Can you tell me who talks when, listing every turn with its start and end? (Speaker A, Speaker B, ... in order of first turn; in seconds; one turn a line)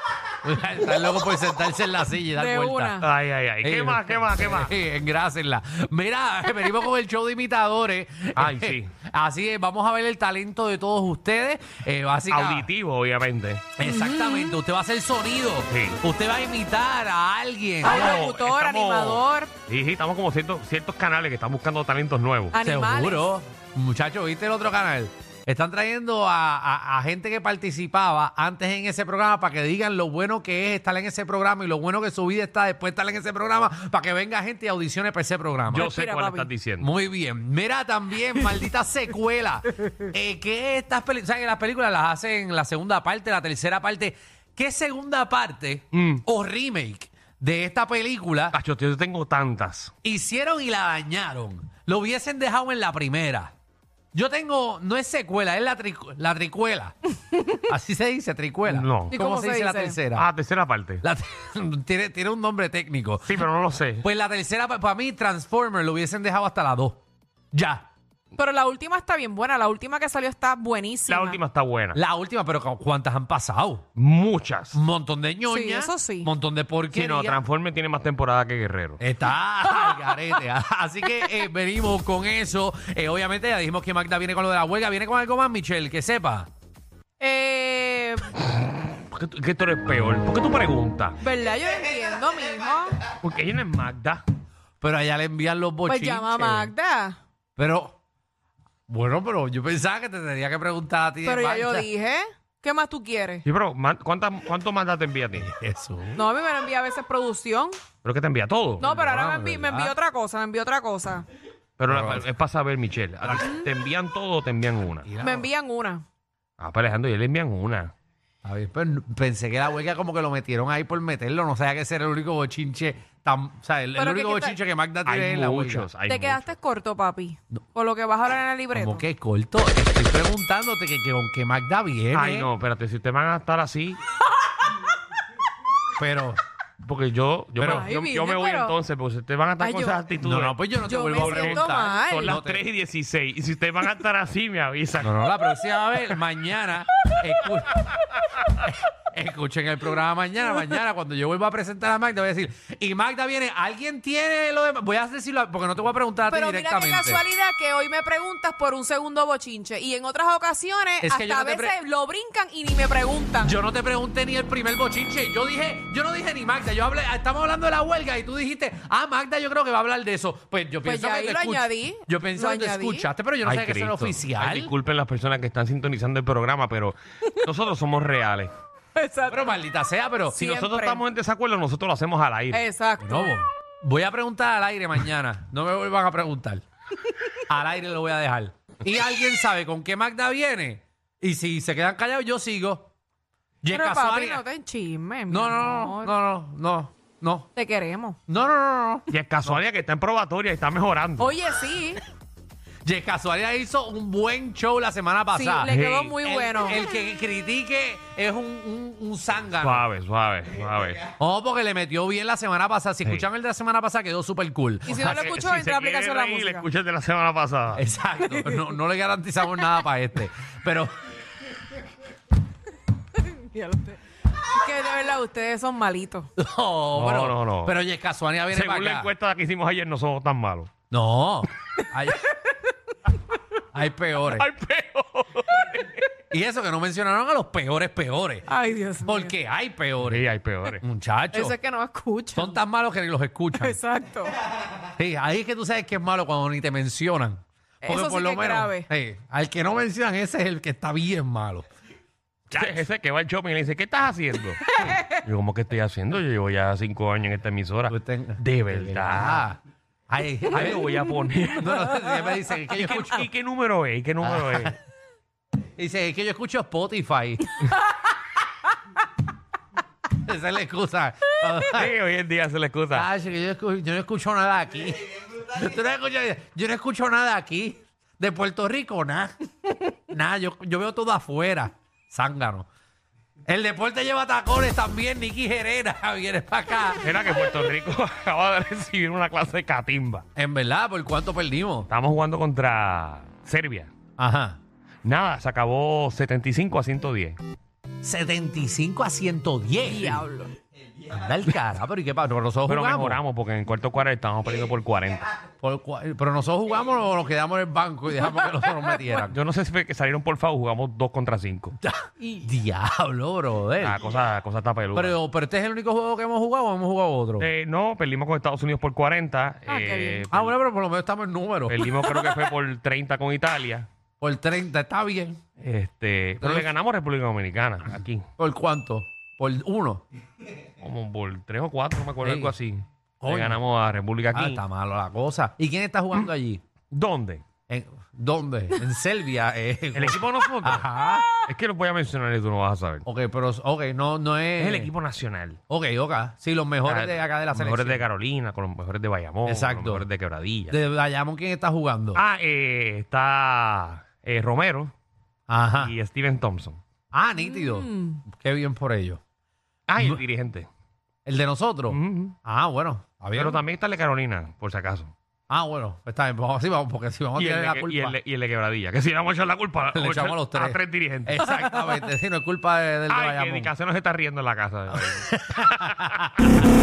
Speaker A: 0.4-3.0
Speaker B: 2.3-3.0
Speaker C: 3.0-4.7
Speaker A: 3.6-12.7
Speaker C: 8.4-8.9
Speaker C: 12.3-13.7
Speaker A: 13.8-18.1
Speaker B: 13.8-14.6
Speaker C: 15.7-16.0
Speaker B: 17.8-19.5
Speaker C: 17.9-22.6
Speaker B: 22.5-23.3
Speaker A: 22.6-35.9
Speaker C: 35.7-36.9
Speaker B: 35.8-36.5
Speaker A: 36.8-48.6
Speaker C: 45.9-46.2
Speaker C: 48.5-49.9
Speaker A: 50.0-53.5
Speaker A: 54.1-60.3
Speaker C: 58.7-59.1
Speaker B: 59.1-60.0
Speaker C: 60.1-61.0
Speaker A: 61.0-63.4
Speaker C: 63.2-64.0
Speaker A: 64.0-67.0
Speaker A: 67.5-67.9
Speaker B: 68.3-71.4
Speaker C: 71.1-72.0
Speaker A: 71.9-73.9
Speaker C: 74.0-74.8
Speaker A: 74.7-77.4
Speaker B: 75.5-76.3
Speaker C: 76.9-79.0
Speaker A: 79.0-86.5
Speaker B: 79.7-80.2
Speaker B: 87.2-88.3
Speaker C: 88.8-91.2
Speaker B: 91.2-93.0
Speaker C: 93.2-94.2
Speaker A: 94.8-96.7
Speaker B: 95.9-97.2
Speaker A: 97.6-98.0
Speaker A: 98.9-101.9
Speaker B: 101.2-103.5
Speaker C: 103.5-105.5
Speaker A: 105.4-106.3
Speaker B: 106.1-107.8
Speaker C: 108.0-108.9
Speaker B: 108.8-111.2
Speaker A: 108.8-110.0
Speaker C: 111.8-115.1
Speaker A: 111.9-112.2
Speaker B: 113.4-113.7
Speaker A: 115.0-115.5
Speaker B: 115.2-116.0
Speaker C: 116.6-117.9
Speaker A: 118.4-125.9
Speaker B: 124.0-124.6
Speaker C: 125.0-126.5
Speaker B: 126.1-129.0
Speaker A: 128.7-132.5
Speaker C: 132.1-134.0
Speaker A: 136.0-136.4
Speaker C: 136.8-140.6
Speaker A: 137.6-137.9
Speaker B: 137.6-138.8
Speaker B: 139.6-140.1
Speaker A: 140.2-142.6
Speaker B: 140.8-142.4
Speaker C: 141.1-145.2
Speaker A: 145.0-147.8
Speaker A: 149.1-157.2
Speaker B: 156.3-163.6
Speaker A: 161.0-161.8
Speaker A: 163.4-174.7
Speaker B: 170.8-173.1
Speaker C: 173.4-178.5
Speaker B: 178.9-179.5
Speaker A: 179.3-180.5
Speaker B: 180.3-181.0
Speaker C: 180.3-182.6
Speaker B: 182.5-183.4
Speaker A: 183.0-186.6
Speaker A: 187.4-192.9
Speaker A: 193.6-194.4
Speaker B: 193.7-196.1
Speaker A: 195.3-197.5
Speaker B: 197.5-198.2
Speaker A: 198.3-199.6
Speaker C: 199.1-201.3
Speaker B: 201.2-202.0
Speaker A: 202.8-209.8
Speaker B: 205.3-206.8
Speaker C: 205.7-206.2
Speaker C: 209.6-211.1
Speaker A: 211.2-215.4
Speaker B: 214.8-216.7
Speaker C: 214.9-217.8
Speaker A: 217.8-220.9
Speaker B: 218.2-218.7
Speaker B: 223.1-226.3
Speaker A: 226.4-229.1
Speaker C: 226.9-227.8
Speaker C: 228.5-230.7
Speaker A: 230.9-232.3
Speaker A: 233.7-234.5
Speaker C: 234.2-236.1
Speaker A: 236.3-238.5
Speaker B: 238.5-239.3
Speaker A: 239.0-241.6
Speaker C: 240.0-240.8
Speaker B: 241.3-242.6
Speaker A: 242.3-243.8
Speaker B: 243.6-244.4
Speaker A: 244.8-251.7
Speaker B: 247.8-248.9
Speaker C: 252.5-259.5
Speaker B: 254.8-255.2
Speaker A: 257.9-259.6
Speaker A: 260.1-260.9
Speaker C: 260.5-264.8
Speaker A: 261.5-263.3
Speaker A: 264.2-264.7
Speaker A: 265.8-267.7
Speaker A: 270.1-271.9
Speaker C: 271.6-273.1
Speaker A: 272.9-282.7
Speaker A: 283.5-287.1
Speaker C: 287.0-290.2
Speaker A: 290.4-291.9
Speaker C: 291.9-293.9
Speaker A: 294.2-294.6
Speaker C: 295.0-297.4
Speaker A: 298.0-300.2
Speaker B: 299.8-300.5
Speaker A: 301.0-303.2
Speaker C: 302.6-305.4
Speaker A: 305.6-309.4
Speaker B: 308.3-309.2
Speaker C: 309.3-311.8
Speaker A: 311.8-314.0
Speaker B: 312.2-312.5
Speaker C: 313.8-315.2
Speaker A: 314.9-317.5
Speaker C: 317.4-320.6
Speaker B: 319.7-320.3
Speaker A: 320.3-321.9
Speaker C: 321.7-323.9
Speaker A: 324.2-325.4
Speaker C: 325.6-328.2
Speaker A: 326.4-326.7
Speaker A: 328.4-330.0
Speaker C: 330.8-334.6
Speaker A: 332.2-332.5
Speaker A: 333.2-333.6
Speaker A: 334.3-336.6
Speaker C: 336.9-337.4
Speaker A: 337.7-341.3
Speaker C: 339.9-340.9
Speaker C: 341.5-343.0
Speaker A: 343.1-344.9
Speaker C: 344.6-345.6
Speaker A: 345.7-348.0
Speaker C: 346.8-350.8
Speaker A: 349.4-350.1
Speaker A: 350.7-352.2
Speaker C: 352.1-354.9
Speaker A: 355.5-355.9
Speaker C: 355.8-356.8
Speaker A: 357.1-359.2
Speaker B: 357.4-358.2
Speaker C: 359.9-360.7
Speaker A: 361.3-363.6
Speaker C: 361.9-362.4
Speaker C: 363.3-365.1
Speaker A: 365.5-368.2
Speaker C: 367.4-371.5
Speaker A: 369.9-373.7
Speaker C: 373.1-376.3
Speaker A: 374.9-376.7